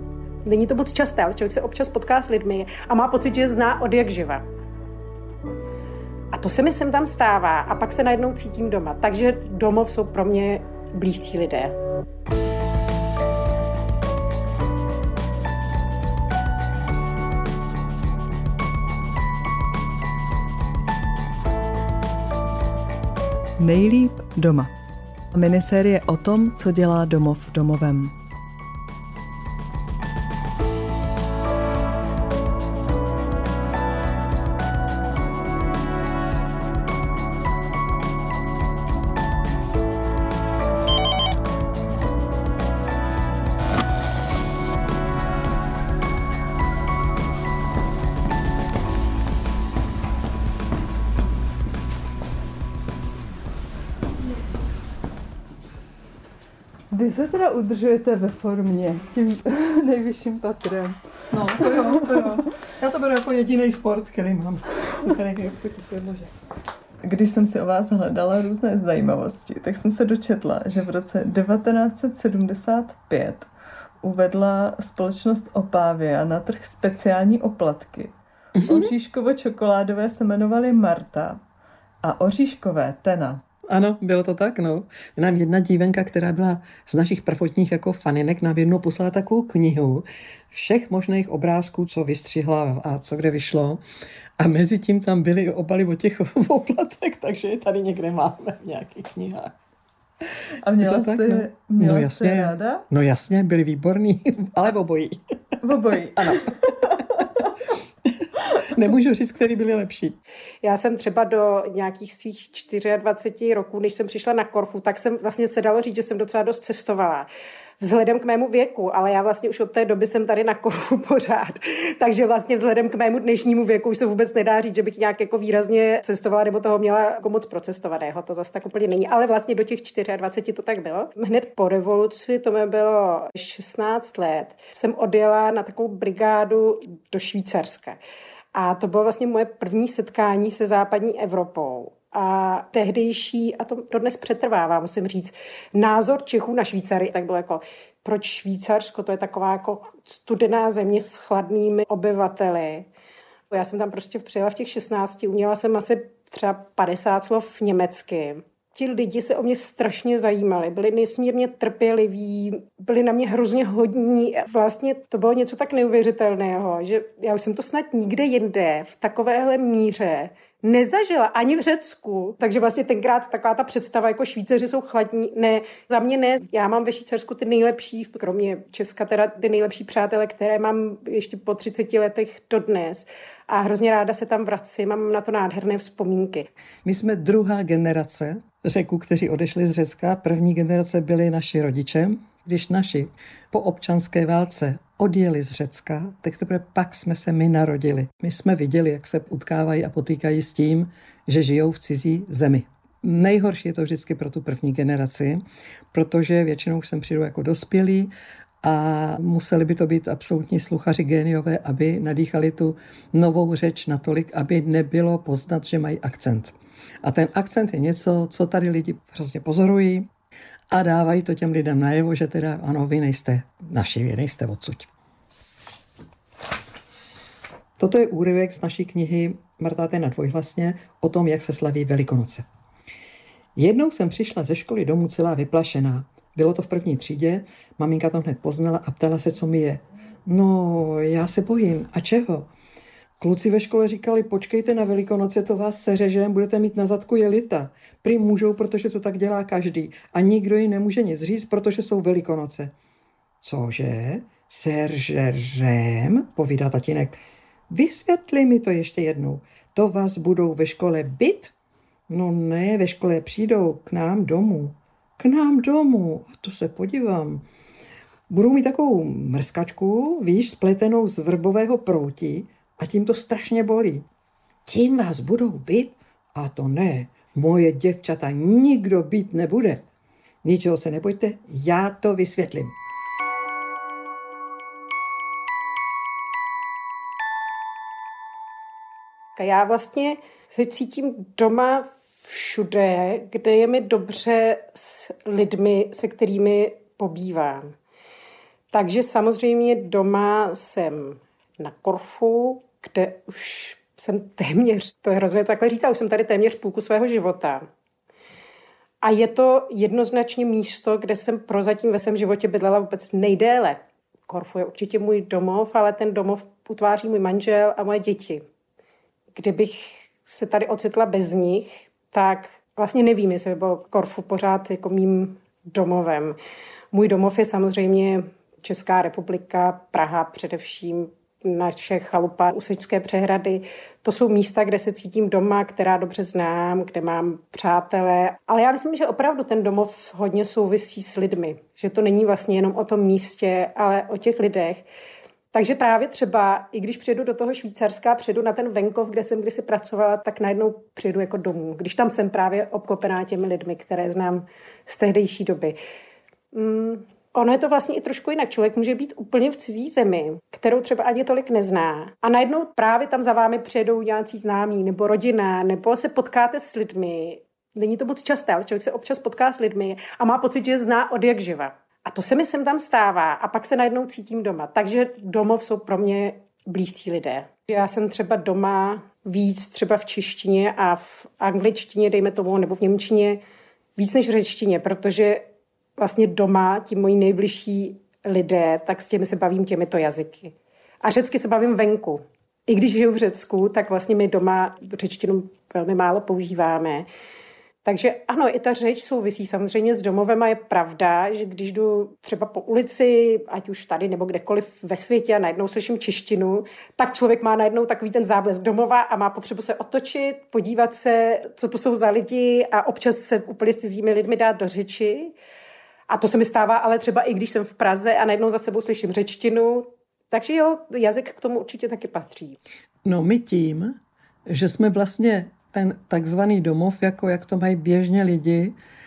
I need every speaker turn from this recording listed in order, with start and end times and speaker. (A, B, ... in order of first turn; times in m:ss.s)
0:00.4-0:04.4 A
0:06.3-0:11.8 A
0:23.6-0:24.7 B
0:25.3-0:27.6 C
0:26.0-0:28.1 B
0:56.9-1:01.0 C
1:01.3-1:06.3 B
1:01.6-1:02.3 C
1:07.0-1:13.5 C
1:14.0-1:21.4 C
1:18.6-1:18.9 B
1:22.0-1:23.4 C
1:23.7-1:33.8 B
1:34.4-1:39.5 B
1:40.6-1:42.8 C
1:40.8-1:45.2 B
1:45.6-1:47.2 C
1:46.2-1:46.7 B
1:48.5-1:50.2 B
1:50.6-1:57.3 A
1:57.8-2:18.0 A
2:18.5-2:32.9 A
2:33.5-3:06.5 A
3:06.8-3:28.1 B
3:28.6-3:40.1 B
3:40.7-3:44.9 B
3:47.8-3:52.5 B
3:53.6-4:02.5 B
4:03.2-4:12.7 B
4:13.4-4:17.2 B
4:17.7-4:21.6 B
4:22.1-4:27.4 B
4:28.3-4:34.1 B
4:34.7-4:39.8 B
4:40.4-4:42.8 B
4:49.4-4:57.7 A
4:58.7-5:07.7 A
5:09.0-5:18.4 A
5:19.4-5:26.4 A
5:26.9-5:44.8 A
5:45.5-5:55.8 A
5:56.5-6:23.4 A
6:24.0-6:25.4 A
6:26.0-6:37.1 A
6:37.8-6:55.3 A
6:56.1-7:02.6 A
7:03.0-7:08.8 B